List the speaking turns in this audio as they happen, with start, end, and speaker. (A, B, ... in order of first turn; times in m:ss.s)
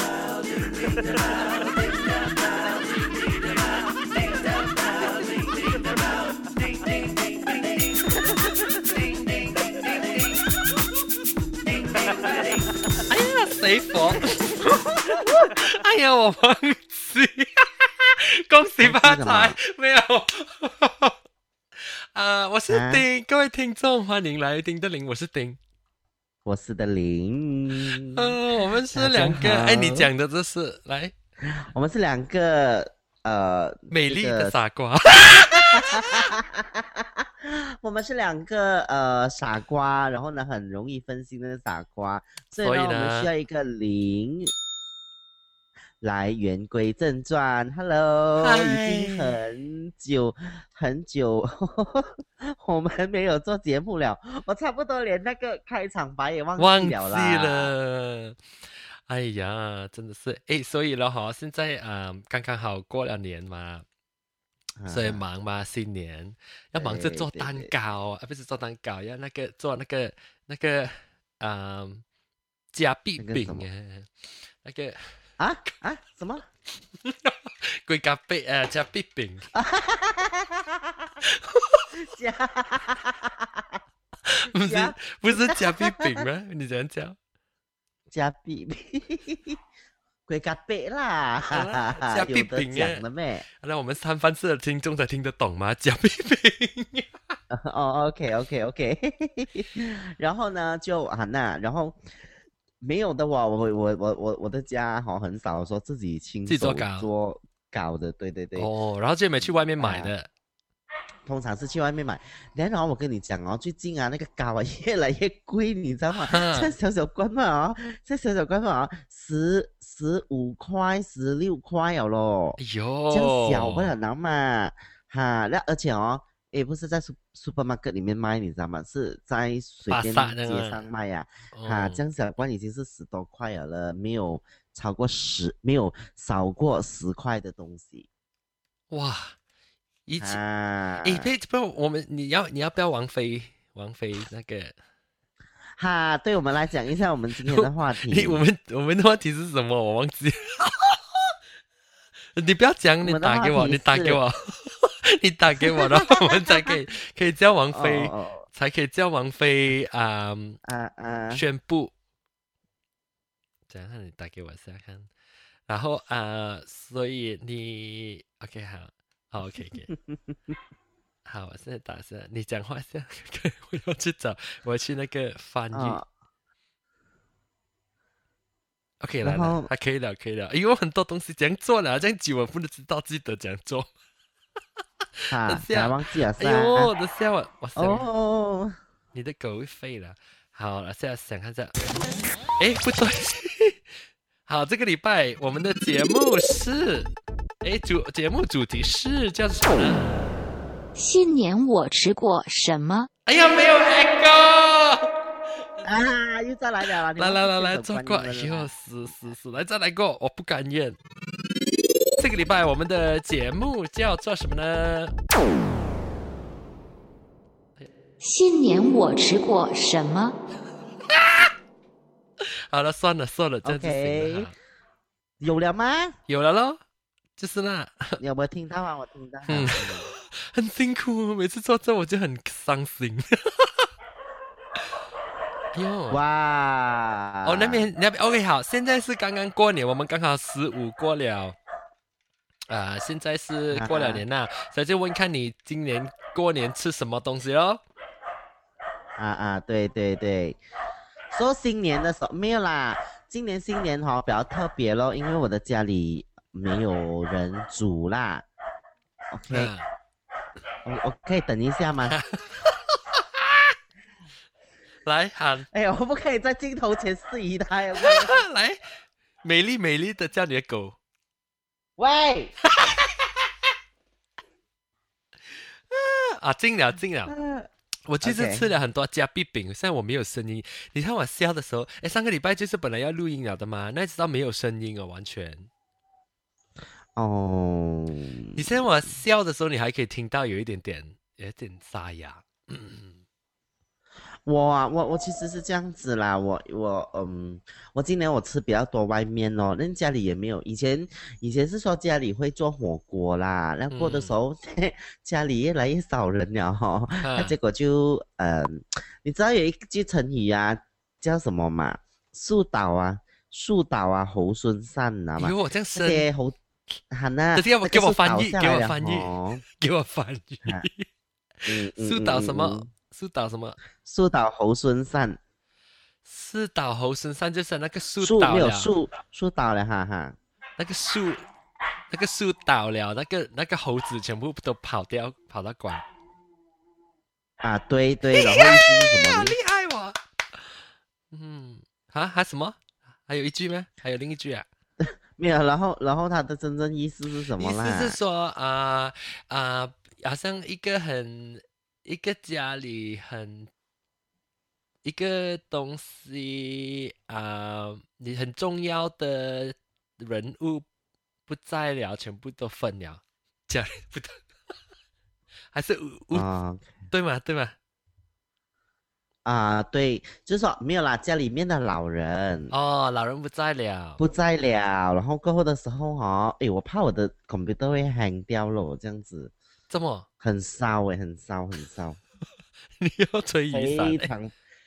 0:01.0-0:01.9 A
0:04.1-0:07.8 A
0:08.4-0:10.4 A
0:11.7-0:12.6 A
0:13.1-0:21.2 A
0:18.8-0:19.6 B
0:21.8-0:25.6 A
0:22.7-0:23.0 B
0:26.4-0:28.4 B
0:27.9-0:31.2 A
0:28.9-0:30.1 B
0:31.4-0:34.6 B
0:33.9-0:36.3 A
0:35.3-0:44.5 B
0:42.6-0:43.3 A
0:46.0-0:57.7 B
0:48.4-0:49.4 A
0:56.6-0:58.4 A
0:58.9-1:03.8 A
1:04.8-1:05.2 B
1:04.9-1:12.0 A
1:06.8-1:07.7 B
1:12.7-1:15.0 A
1:13.2-1:13.6 B
1:15.4-1:16.4 B
1:16.9-1:19.5 A
1:19.5-1:21.1 B
1:21.2-1:22.0 A
1:22.0-1:23.8 B
1:24.3-1:27.2 A
1:24.6-1:26.2 B
1:28.1-1:29.6 B
1:30.3-1:33.5 B
1:31.5-1:33.0 A
1:33.6-1:37.3 A
1:37.5-1:42.0 B
1:42.8-1:48.7 B
1:46.5-1:47.1 A
1:48.6-1:50.3 A
1:49.8-1:50.1 B
1:51.3-2:02.6 B
1:56.1-1:56.7 A
2:02.6-2:03.9 A
2:03.1-2:18.1 B
2:09.9-2:10.8 A
2:11.5-2:12.0 A
2:18.9-2:19.4 A
2:20.1-2:20.4 A
2:20.2-2:21.3 B
2:21.0-2:24.8 A
2:25.8-2:28.4 B
2:27.5-2:31.3 A
2:32.3-2:40.6 A
2:33.0-2:34.2 B
2:35.6-2:36.7 B
2:37.8-2:38.5 B
2:40.6-2:41.4 B
2:41.3-2:41.9 A
2:43.7-2:45.1 A
2:45.7-2:49.9 A
2:49.9-2:50.6 B
2:51.3-2:56.0 A
2:55.7-2:56.0 B
2:59.0-3:03.9 A
2:59.2-2:59.7 B
3:05.2-3:08.1 A
3:05.3-3:06.9 B
3:07.8-3:08.8 B
3:09.1-3:11.8 A
3:12.6-3:13.8 A
3:14.5-3:17.1 A
3:17.6-3:20.2 A
3:21.0-3:23.1 C
3:23.3-3:25.1 A
3:25.8-3:28.7 B
3:27.2-3:31.0 A
3:32.2-3:35.1 A
3:38.2-3:40.4 C
3:41.1-3:41.5 A
3:42.4-3:44.6 A
3:43.6-3:44.5 B
3:45.4-3:46.2 B
3:46.3-3:46.8 A
3:47.4-3:48.2 A
3:48.2-3:50.1 B
3:49.5-3:53.9 A
3:55.7-3:56.2 A
3:56.1-3:57.9 B
3:57.4-4:01.6 A
4:02.7-4:07.8 A
4:03.7-4:04.2 B
4:09.2-4:10.6 B
4:11.3-4:18.5 B
4:19.3-4:19.7 B
4:19.5-4:19.9 A
4:20.8-4:22.2 B
4:22.1-4:23.7 A
4:25.0-4:25.7 A
4:25.7-4:28.4 B
4:28.0-4:28.9 A
4:29.4-4:31.0 A
4:32.0-4:32.6 B
4:35.9-4:37.3 A
4:37.3-4:37.7 B
4:38.1-4:45.7 A
4:38.2-4:38.6 B
4:47.2-4:48.8 B
4:48.6-4:53.2 A
4:54.4-5:16.6 B
5:03.9-5:04.3 A
5:07.2-5:07.6 A
5:15.4-5:16.3 A
5:17.1-5:19.6 B
5:17.6-5:21.1 A
5:21.6-5:22.9 B
5:21.8-5:23.8 A
5:24.0-5:25.4 B
5:26.2-5:28.9 A
5:28.2-5:30.4 B
5:30.8-5:31.5 A
5:32.1-5:36.0 A
5:37.6-5:39.6 B
5:38.3-5:40.2 A
5:41.3-5:44.7 A
5:45.0-5:48.2 B
5:47.6-5:53.7 A
5:55.0-6:00.9 A
6:01.5-6:04.4 A
6:05.7-6:06.5 A
6:06.3-6:07.0 B
6:07.1-6:07.8 A
6:09.4-6:12.7 B
6:12.7-6:14.2 A
6:14.2-6:19.5 B
6:19.9-6:20.3 A
6:20.4-6:22.2 B
6:23.0-6:24.3 A
6:23.7-6:24.5 B